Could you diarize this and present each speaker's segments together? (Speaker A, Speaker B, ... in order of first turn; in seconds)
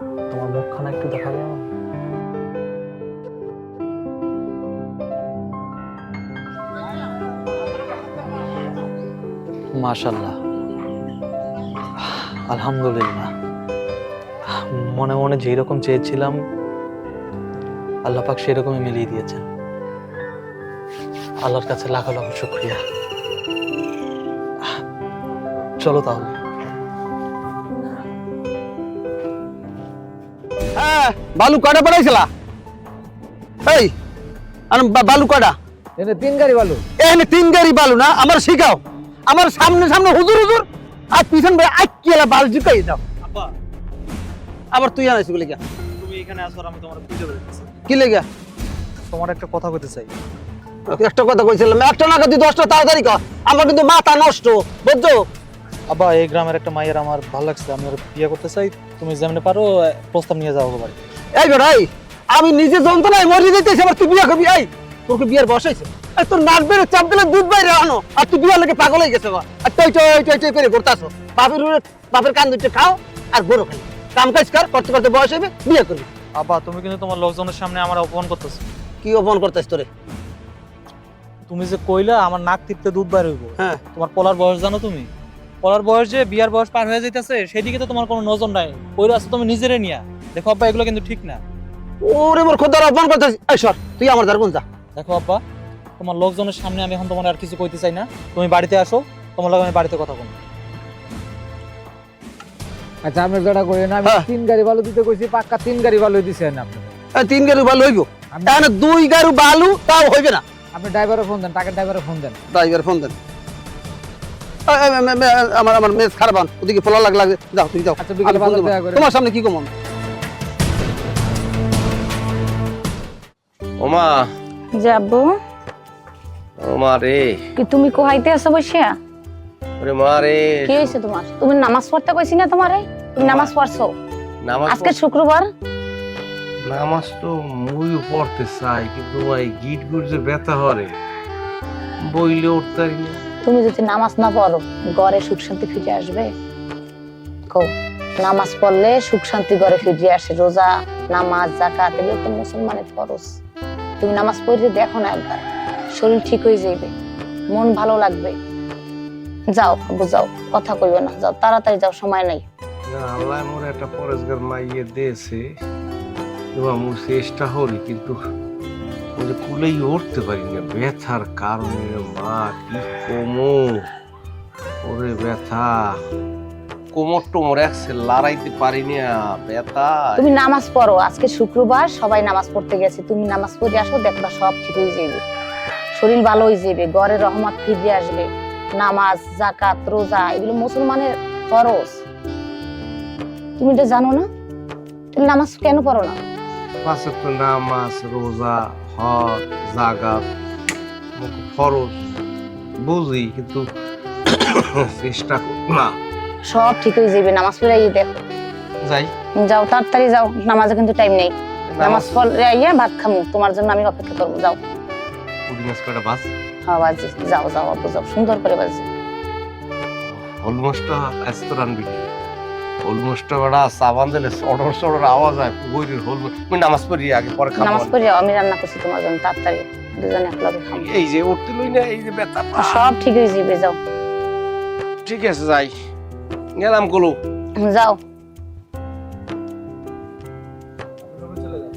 Speaker A: 0.3-1.6, 9.8-10.4, 12.0-13.3, 14.6-16.4, 18.1-19.5, 21.4-22.8, 25.8-26.3, 43.2-43.5, 46.0-47.7, 49.1-50.1, 55.9-61.0, 76.4-78.6, 81.5-85.1, 85.6-91.4, 95.0-95.4, 96.0-100.4
Speaker B: 30.8-32.3, 33.7-33.9, 34.7-35.6, 37.0-43.0, 44.7-45.6, 47.9-48.3, 50.9-55.2, 61.4-76.1, 79.0-79.9, 92.0-94.6, 107.2-110.4, 112.5-113.2, 114.7-119.7
Speaker C: 36.0-36.8, 103.0-107.0, 108.3-108.7, 110.7-112.4, 118.0-119.1
Speaker D: 123.8-124.3, 126.6-127.4, 129.8-130.9, 133.2-133.5, 134.4-134.9, 136.7-141.0, 142.0-143.2, 162.9-165.4, 166.6-168.2, 169.2-173.9, 174.8-176.0, 176.9-180.2, 196.8-200.3, 201.2-202.0, 202.8-203.7, 204.3-206.0, 208.8-209.1, 211.7-212.2, 215.5-216.3, 220.1-222.1, 222.8-227.9, 230.7-232.9, 235.1-235.7, 236.6-237.2
Speaker E: 124.8-125.3, 127.6-128.9, 130.7-133.9, 134.7-135.5, 143.4-146.3, 147.5-153.3, 154.0-156.9, 157.5-158.4, 159.5-162.4, 180.2-185.2, 185.9-192.0, 193.6-194.3, 195.1-196.2, 206.5-208.2, 209.4-214.6, 216.7-218.9, 227.6-230.9, 232.6-233.8, 237.6-238.0